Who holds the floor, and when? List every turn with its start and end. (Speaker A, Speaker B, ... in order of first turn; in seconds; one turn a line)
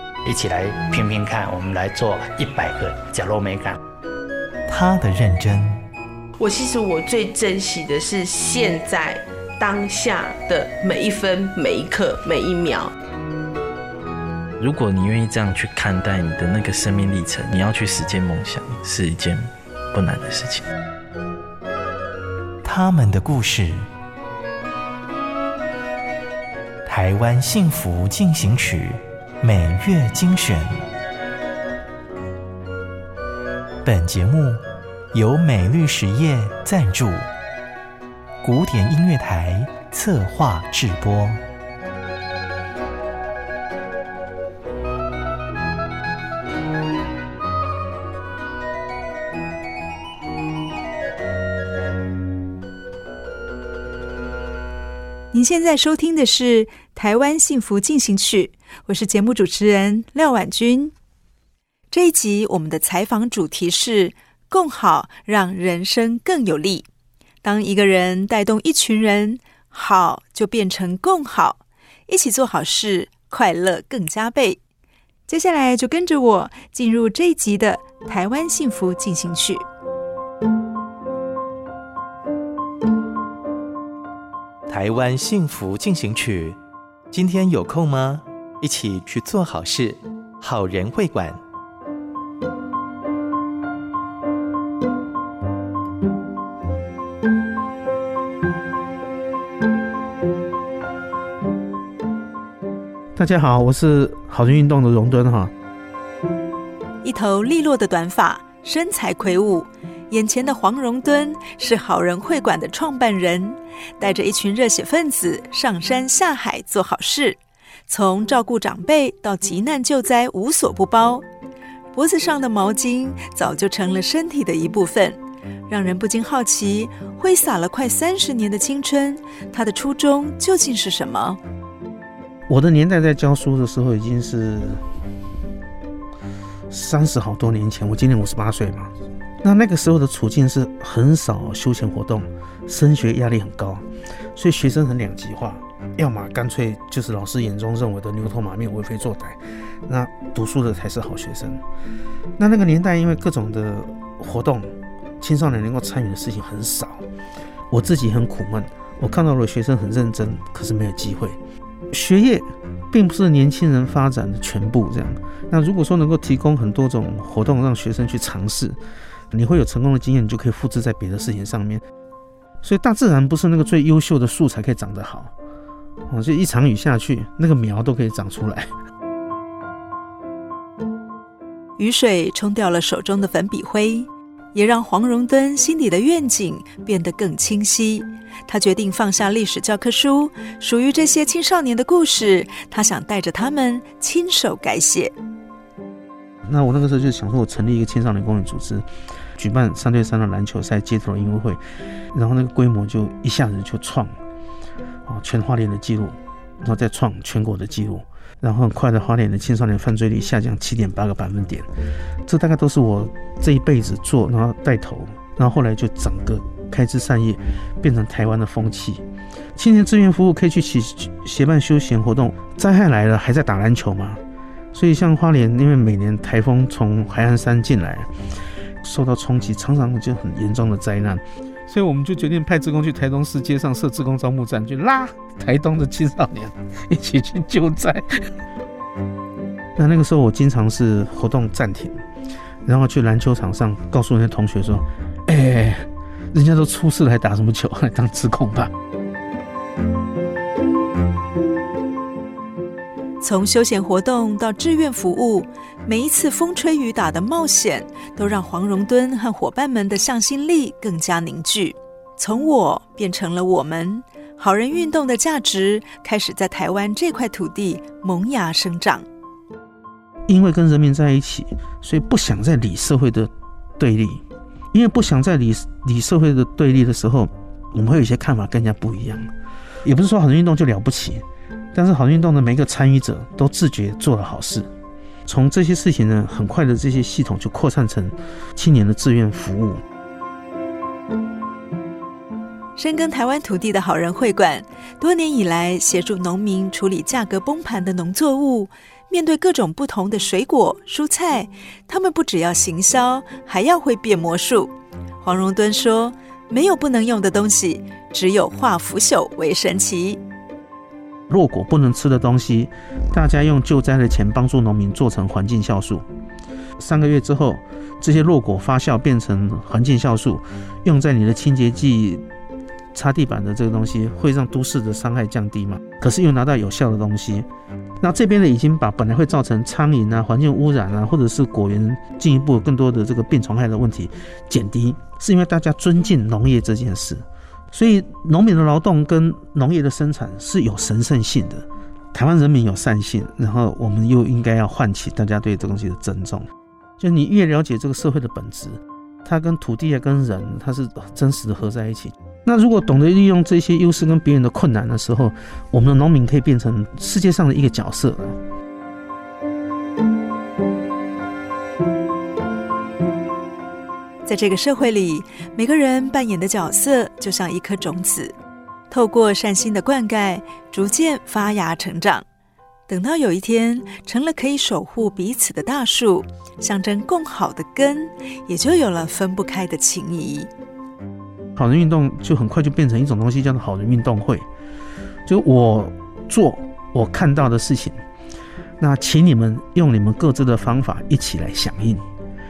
Speaker A: 0.2-3.8
Speaker B: 4.7-5.8
Speaker C: 6.4-12.9
Speaker D: 14.6-20.6
Speaker B: 22.6-23.8
Speaker B: 26.9-30.7
Speaker B: 33.9-34.6
Speaker B: 35.1-37.3
Speaker B: 38.4-41.4
Speaker E: 55.3-60.9
Speaker E: 61.9-66.9
Speaker E: 67.4-74.6
Speaker E: 75.3-79.6
Speaker B: 84.7-86.6
Speaker B: 87.1-91.4
Speaker F: 103.2-105.5
Speaker E: 107.0-121.2
Speaker E: 121.9-131.4
Speaker F: 132.5-134.8
Speaker F: 136.7-151.6
Speaker F: 152.4-157.1
Speaker F: 157.7-161.4
Speaker F: 161.9-168.8
Speaker F: 169.3-171.8
Speaker F: 172.6-175.3
Speaker F: 176.1-178.7
Speaker E: 181.8-195.1
Speaker F: 196.5-201.6
Speaker F: 202.1-204.2
Speaker F: 205.1-211.7
Speaker F: 212.3-219.0
Speaker F: 219.6-224.2
Speaker F: 224.7-228.1
Speaker F: 228.8-238.2
Speaker F: 239.8-242.0
Speaker F: 242.7-248.7
Speaker E: 253.2-269.1
Speaker F: 270.3-279.3
Speaker F: 279.9-284.7
Speaker F: 285.3-289.8
Speaker E: 292.8-310.2
Speaker F: 311.3-316.1
Speaker F: 316.8-322.2
Speaker F: 322.9-327.5
Speaker F: 328.0-346.5
Speaker F: 347.0-358.4
Speaker E: 364.2-368.4
Speaker E: 368.9-372.2
Speaker E: 372.9-380.5
Speaker F: 381.6-384.5
Speaker F: 385.3-388.0
Speaker F: 388.8-392.0